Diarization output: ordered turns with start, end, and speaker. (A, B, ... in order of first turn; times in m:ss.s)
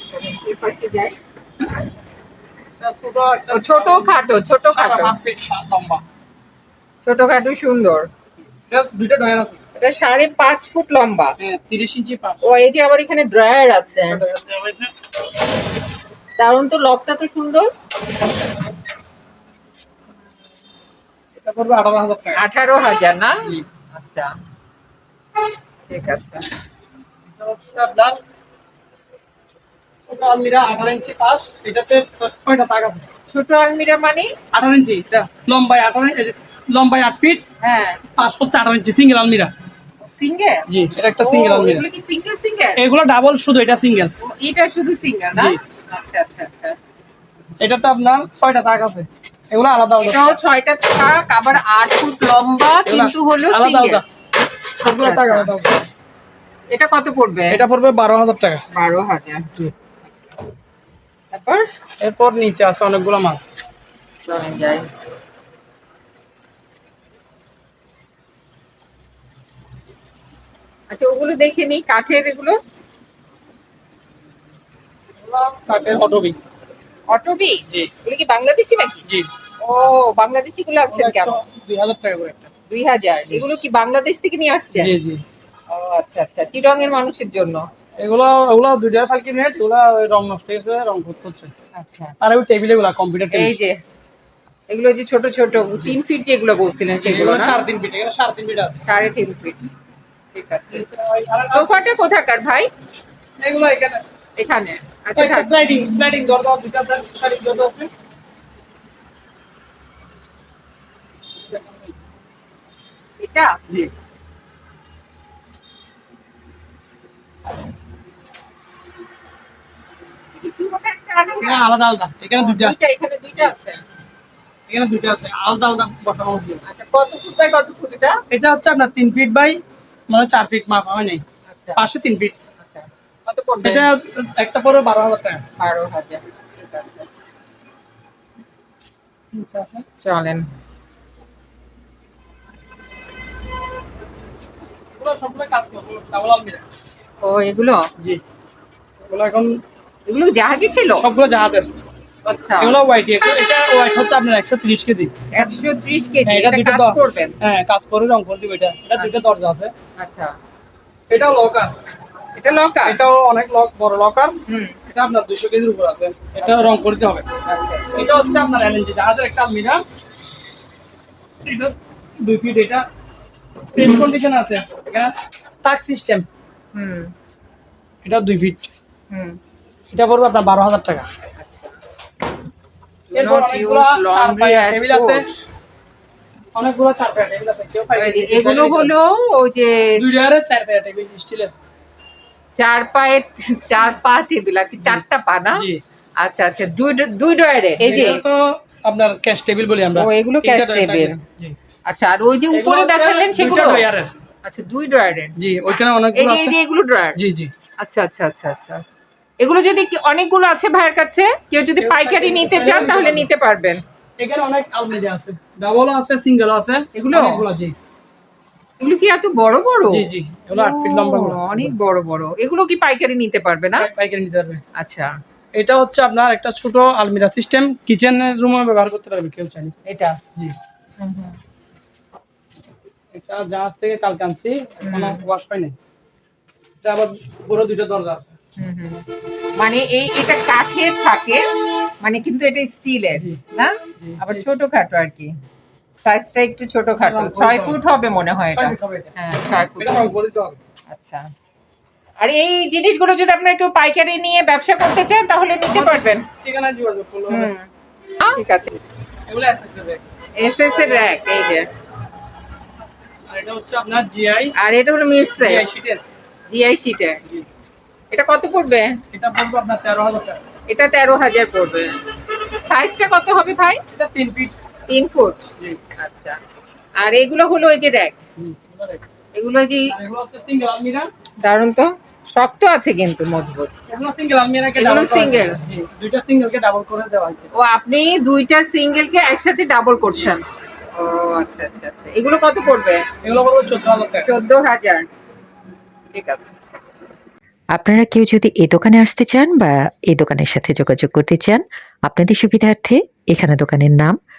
0:00.1-0:01.2 A
0:02.8-0:04.2 B
0:03.5-0:05.1 A
0:04.7-0:06.0 B
0:07.0-0:08.1 A
0:08.7-0:09.6 B
0:09.7-0:11.4 A
0:11.4-0:12.4 B
0:12.4-0:14.2 A
0:14.1-0:14.9 B
0:16.4-0:17.7 A
0:21.4-0:22.4 B
0:22.3-0:24.3 A
0:25.9-0:26.4 A
0:27.4-0:28.2 B
0:30.1-0:33.0 B
0:33.3-0:34.3 A
0:34.5-0:37.4 B
0:37.6-0:38.0 A
0:38.2-0:39.5 B
0:40.0-0:42.8 A
0:40.7-0:41.8 B
0:42.8-0:44.1 B
0:44.2-0:46.8 A
0:47.6-0:50.4 B
0:50.0-0:54.0 A
0:52.8-0:54.0 B
0:54.8-0:55.5 A
0:54.8-0:55.8 B
0:56.7-0:57.6 A
0:57.5-0:58.6 B
0:58.7-0:59.5 A
1:01.3-1:01.7 A
1:02.0-1:03.4 B
1:04.2-1:04.9 A
1:10.9-1:12.6 A
1:15.2-1:16.4 B
1:17.1-1:19.0 A
1:19.6-1:21.4 A
1:20.9-1:22.5 B
1:22.7-1:24.9 A
1:24.7-1:25.2 B
1:25.7-1:27.7 A
1:28.0-1:31.5 B
1:31.7-1:32.1 A
1:32.2-1:33.5 B
1:33.3-1:33.8 A
1:34.7-1:37.6 A
1:37.0-1:38.8 B
1:38.8-1:39.6 A
1:40.3-1:40.8 A
1:40.7-1:41.7 B
1:41.5-1:42.7 A
1:43.4-1:44.0 B
1:44.4-1:45.5 A
1:45.2-1:47.9 B
1:53.2-1:53.6 A
2:00.4-2:01.6 A
2:01.4-2:02.8 B
2:02.4-2:03.8 A
2:04.7-2:06.6 B
2:06.6-2:08.2 A
2:08.3-2:11.2 B
2:11.5-2:11.8 A
2:11.8-2:12.4 B
2:12.6-2:13.9 A
2:13.6-2:15.4 B
2:15.6-2:17.1 A
2:19.3-2:19.8 B
2:20.0-2:20.5 A
2:25.0-2:26.6 B
2:27.2-2:27.8 A
2:29.1-2:29.6 B
2:30.1-2:31.0 A
2:31.0-2:31.7 B
2:32.2-2:32.8 A
2:32.6-2:35.2 B
2:35.3-2:37.3 A
2:36.3-2:39.7 B
2:40.0-2:40.4 A
2:41.1-2:41.7 B
2:42.3-2:43.0 A
2:42.8-2:44.4 B
2:44.5-2:44.8 A
2:44.9-2:47.2 B
2:46.4-2:46.7 A
2:47.4-2:48.0 A
2:47.9-2:49.8 B
2:51.4-2:52.8 B
2:53.7-2:56.3 B
2:56.7-2:57.1 A
2:58.0-2:58.7 B
2:59.1-2:59.4 A
2:59.9-3:01.1 B
3:01.4-3:01.8 A
3:03.1-3:05.2 A
3:03.1-3:05.3 B
3:06.5-3:08.9 B
3:08.0-3:10.0 A
3:10.0-3:11.5 B
3:12.5-3:15.6 A
3:15.6-3:15.8 B
3:16.2-3:18.2 A
3:17.8-3:21.6 B
3:20.0-3:21.2 A
3:21.8-3:23.9 A
3:22.5-3:24.1 B
3:24.4-3:25.3 A
3:25.4-3:26.6 B
3:26.1-3:27.2 A
3:27.2-3:27.5 B
3:27.8-3:28.8 A
3:29.4-3:33.8 A
3:31.8-3:33.3 B
3:34.2-3:37.7 B
3:36.9-3:37.4 A
3:38.8-3:43.9 A
3:39.9-3:41.7 B
3:43.8-3:44.6 B
3:44.8-3:45.1 A
3:45.5-3:49.7 B
3:49.8-3:50.2 A
3:51.0-3:51.4 A
3:53.1-3:55.7 B
3:54.8-3:55.2 A
3:56.8-3:58.4 B
3:58.6-3:59.0 A
3:59.6-4:01.4 A
4:02.0-4:05.3 A
4:04.0-4:04.4 B
4:06.0-4:10.1 A
4:07.0-4:07.8 B
4:08.5-4:09.1 B
4:09.8-4:10.6 B
4:10.9-4:11.3 A
4:12.2-4:16.2 A
4:15.7-4:17.5 B
4:17.3-4:17.7 A
4:18.2-4:18.7 A
4:19.3-4:20.0 B
4:20.4-4:21.7 A
4:23.3-4:24.5 B
4:24.5-4:25.6 A
4:25.4-4:26.0 B
4:26.5-4:27.2 A
4:28.1-4:29.0 A
4:29.1-4:30.4 B
4:30.7-4:32.0 A
4:32.6-4:33.8 A
4:33.9-4:34.5 B
4:34.9-4:35.4 A
4:36.0-4:36.4 A
4:37.0-4:38.2 A
4:38.4-4:39.0 B
4:39.3-4:39.9 A
4:39.9-4:41.1 B
4:41.4-4:43.7 A
4:43.9-4:47.5 B
4:44.8-4:45.6 A
4:47.5-4:53.0 A
4:50.1-4:50.3 B
4:53.2-4:54.3 B
4:54.2-4:55.1 A
4:56.1-4:56.6 A
4:57.7-5:04.2 C